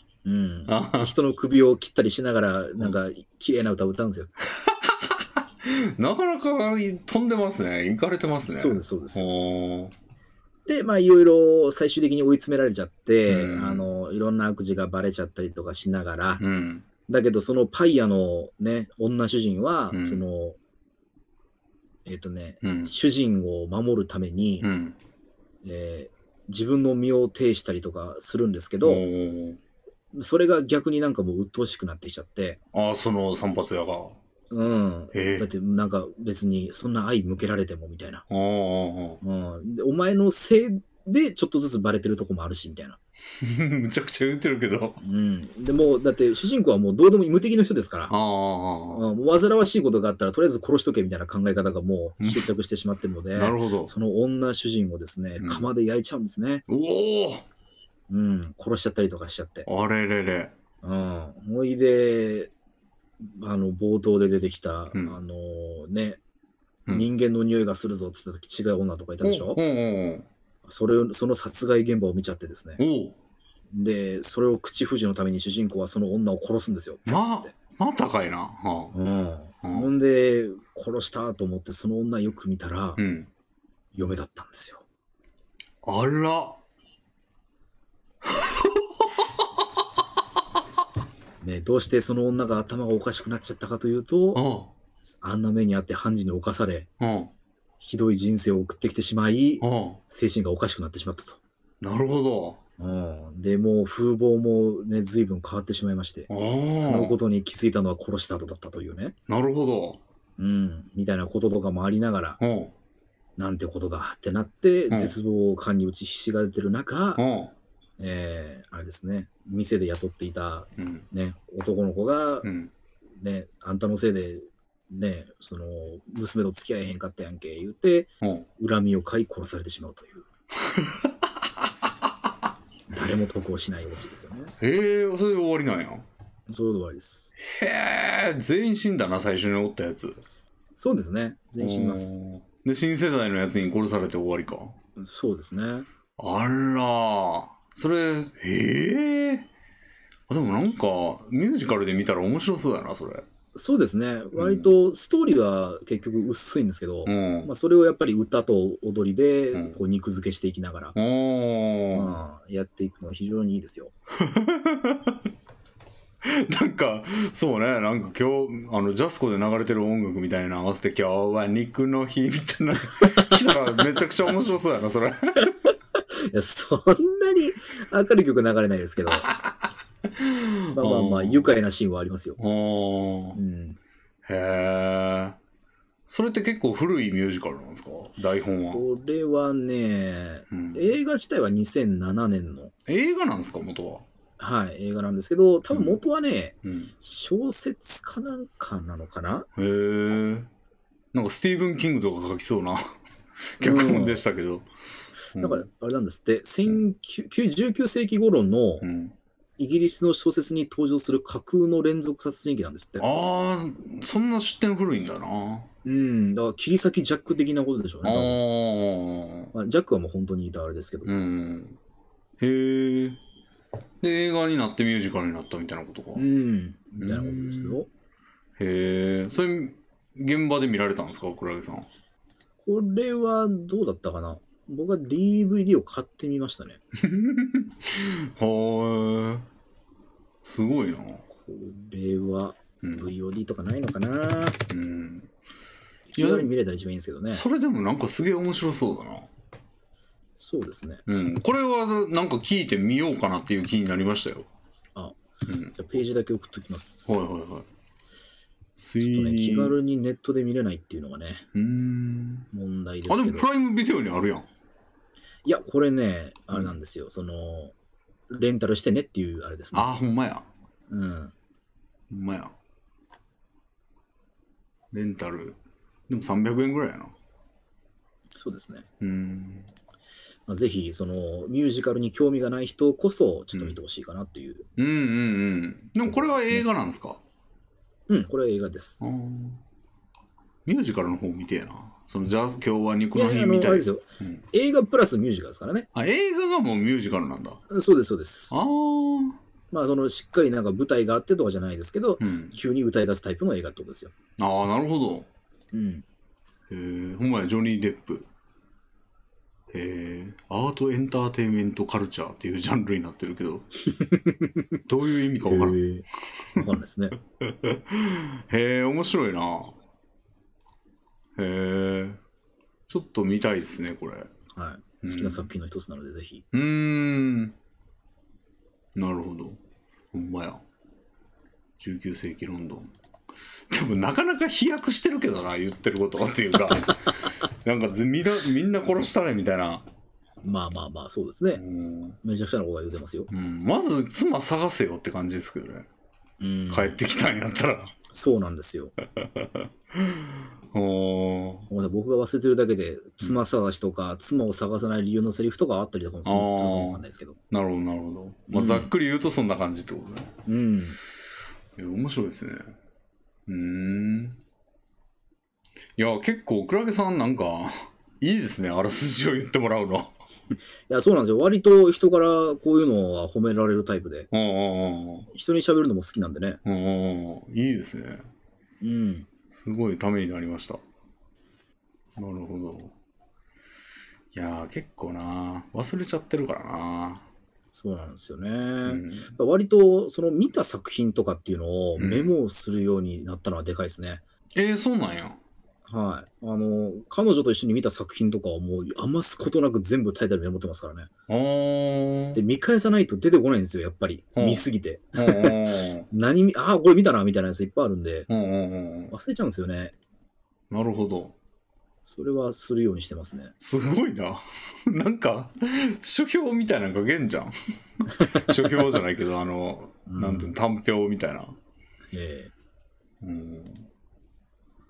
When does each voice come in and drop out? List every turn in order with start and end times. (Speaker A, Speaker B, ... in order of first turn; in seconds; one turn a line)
Speaker A: 0.2-4.3
Speaker B: 0.7-1.1
Speaker B: 4.5-9.9
Speaker A: 8.5-9.3
Speaker A: 10.7-16.4
Speaker B: 13.3-13.9
Speaker B: 16.4-16.9
Speaker A: 17.1-20.6
Speaker B: 19.9-20.2
Speaker A: 22.1-24.7
Speaker B: 22.6-22.9
Speaker B: 24.6-25.0
Speaker A: 25.6-29.0
Speaker B: 28.8-29.6
Speaker A: 30.1-32.6
Speaker B: 32.7-34.2
Speaker A: 34.5-38.2
Speaker B: 35.1-35.5
Speaker B: 38.3-39.2
Speaker A: 39.2-43.0
Speaker B: 43.4-45.0
Speaker A: 45.0-48.1
Speaker B: 48.1-49.0
Speaker A: 48.9-56.6
Speaker B: 52.2-52.5
Speaker B: 53.4-53.9
Speaker B: 55.4-55.7
Speaker B: 56.7-57.5
Speaker A: 58.1-59.7
Speaker B: 59.7-60.5
Speaker A: 60.8-62.5
Speaker A: 63.2-66.2
Speaker A: 66.9-69.6
Speaker B: 69.2-70.3
Speaker A: 70.7-72.8
Speaker B: 72.8-73.2
Speaker A: 73.7-77.5
Speaker B: 77.1-78.9
Speaker A: 78.9-83.0
Speaker B: 79.6-79.9
Speaker B: 83.0-83.3
Speaker A: 83.9-84.8
Speaker B: 85.8-86.6
Speaker B: 88.2-89.4
Speaker A: 91.4-94.4
Speaker B: 94.3-94.7
Speaker A: 95.2-96.9
Speaker B: 97.0-97.3
Speaker A: 97.8-101.4
Speaker B: 99.6-100.0
Speaker B: 101.8-102.6
Speaker A: 102.8-109.1
Speaker B: 106.3-107.2
Speaker B: 109.3-110.0
Speaker A: 110.4-112.4
Speaker B: 112.4-112.7
Speaker A: 113.4-117.2
Speaker B: 114.9-115.2
Speaker B: 117.2-117.5
Speaker A: 118.0-122.5
Speaker B: 120.8-121.1
Speaker B: 122.4-122.7
Speaker A: 123.2-130.3
Speaker B: 128.2-128.5
Speaker B: 130.7-131.3
Speaker A: 132.9-134.5
Speaker B: 134.6-136.1
Speaker A: 136.5-137.3
Speaker B: 137.4-140.2
Speaker A: 140.8-142.2
Speaker B: 141.6-144.8
Speaker A: 145.0-145.9
Speaker B: 146.2-149.5
Speaker B: 150.3-153.2
Speaker A: 153.6-160.9
Speaker B: 154.3-154.7
Speaker B: 157.1-157.5
Speaker B: 159.5-159.8
Speaker B: 160.9-162.1
Speaker A: 161.9-163.9
Speaker B: 164.2-165.2
Speaker B: 166.2-175.6
Speaker A: 173.0-173.3
Speaker A: 176.2-179.3
Speaker B: 179.1-179.6
Speaker B: 180.2-181.5
Speaker A: 180.7-182.4
Speaker B: 182.4-183.4
Speaker A: 183.4-183.8
Speaker B: 184.3-185.4
Speaker B: 186.1-188.8
Speaker A: 188.7-192.7
Speaker B: 190.5-190.9
Speaker B: 192.9-194.1
Speaker A: 194.4-199.5
Speaker B: 195.7-196.0
Speaker B: 196.6-196.9
Speaker B: 199.6-200.5
Speaker B: 201.1-202.9
Speaker B: 203.6-204.7
Speaker A: 203.6-204.2
Speaker B: 205.3-205.7
Speaker A: 205.4-208.8
Speaker B: 208.8-209.2
Speaker A: 209.6-213.1
Speaker B: 213.0-215.7
Speaker A: 215.8-218.4
Speaker B: 218.0-219.5
Speaker A: 219.5-221.1
Speaker B: 221.1-221.8
Speaker B: 222.4-223.2
Speaker B: 224.0-226.2
Speaker A: 226.2-227.9
Speaker B: 227.0-227.8
Speaker B: 228.6-231.9
Speaker A: 232.6-236.8
Speaker B: 236.9-239.4
Speaker B: 240.4-241.2
Speaker A: 241.3-244.6
Speaker B: 242.8-243.1
Speaker B: 244.7-245.3
Speaker A: 246.1-247.4
Speaker B: 246.2-246.5
Speaker B: 247.3-249.3
Speaker A: 250.4-251.0
Speaker B: 251.1-254.5
Speaker B: 255.5-255.8
Speaker A: 255.8-257.2
Speaker B: 257.1-257.7
Speaker B: 258.8-259.8
Speaker A: 259.0-261.5
Speaker B: 261.6-262.5
Speaker A: 262.5-263.5
Speaker B: 263.1-264.5
Speaker A: 265.4-267.7
Speaker A: 268.3-269.9
Speaker B: 269.7-270.5
Speaker A: 270.9-271.3
Speaker B: 272.1-272.5
Speaker B: 274.9-275.6
Speaker B: 276.1-277.1
Speaker A: 278.4-278.9
Speaker B: 279.0-279.7
Speaker A: 280.5-284.6
Speaker B: 284.8-287.2
Speaker A: 286.1-286.6
Speaker A: 288.1-289.0
Speaker B: 289.0-289.6
Speaker B: 290.7-294.4
Speaker A: 293.1-295.9
Speaker B: 295.9-297.6
Speaker A: 297.7-298.6
Speaker B: 298.5-299.4
Speaker A: 299.7-304.1
Speaker B: 302.2-302.6
Speaker B: 304.4-305.3
Speaker A: 305.7-306.1
Speaker B: 306.7-308.3
Speaker B: 309.7-313.7
Speaker A: 313.9-314.6
Speaker B: 314.9-315.8
Speaker A: 315.5-317.1
Speaker B: 317.4-319.7
Speaker B: 321.4-322.2
Speaker B: 322.9-324.3
Speaker A: 324.5-326.4
Speaker B: 325.0-325.5
Speaker B: 326.5-327.6
Speaker B: 329.0-329.6
Speaker B: 330.1-330.6
Speaker B: 331.8-332.9
Speaker B: 333.7-339.9
Speaker A: 340.4-341.6
Speaker B: 341.6-342.2
Speaker A: 342.2-343.3
Speaker B: 343.3-345.9
Speaker A: 346.4-347.0
Speaker B: 346.7-347.9
Speaker A: 348.1-348.9
Speaker B: 349.2-351.7
Speaker A: 351.7-357.4
Speaker B: 356.2-360.3
Speaker A: 358.5-358.9
Speaker A: 360.5-361.0
Speaker B: 361.8-362.7
Speaker B: 363.5-364.4
Speaker B: 366.0-370.1
Speaker A: 370.9-374.3
Speaker B: 374.3-375.3
Speaker A: 375.3-376.6
Speaker B: 376.6-378.3
Speaker A: 378.8-379.3
Speaker B: 379.5-380.8
Speaker B: 382.2-382.9
Speaker B: 384.3-387.2
Speaker A: 387.7-394.2
Speaker B: 388.9-389.3
Speaker B: 392.0-392.3
Speaker B: 394.6-395.4
Speaker A: 395.9-401.1
Speaker B: 401.3-402.4
Speaker A: 402.3-405.6
Speaker B: 404.4-406.1
Speaker A: 406.1-408.3
Speaker B: 408.3-409.1
Speaker A: 409.1-409.9
Speaker B: 410.7-411.4
Speaker A: 412.0-413.5
Speaker B: 413.6-421.6
Speaker A: 420.1-420.5
Speaker A: 422.1-422.5
Speaker B: 423.2-423.9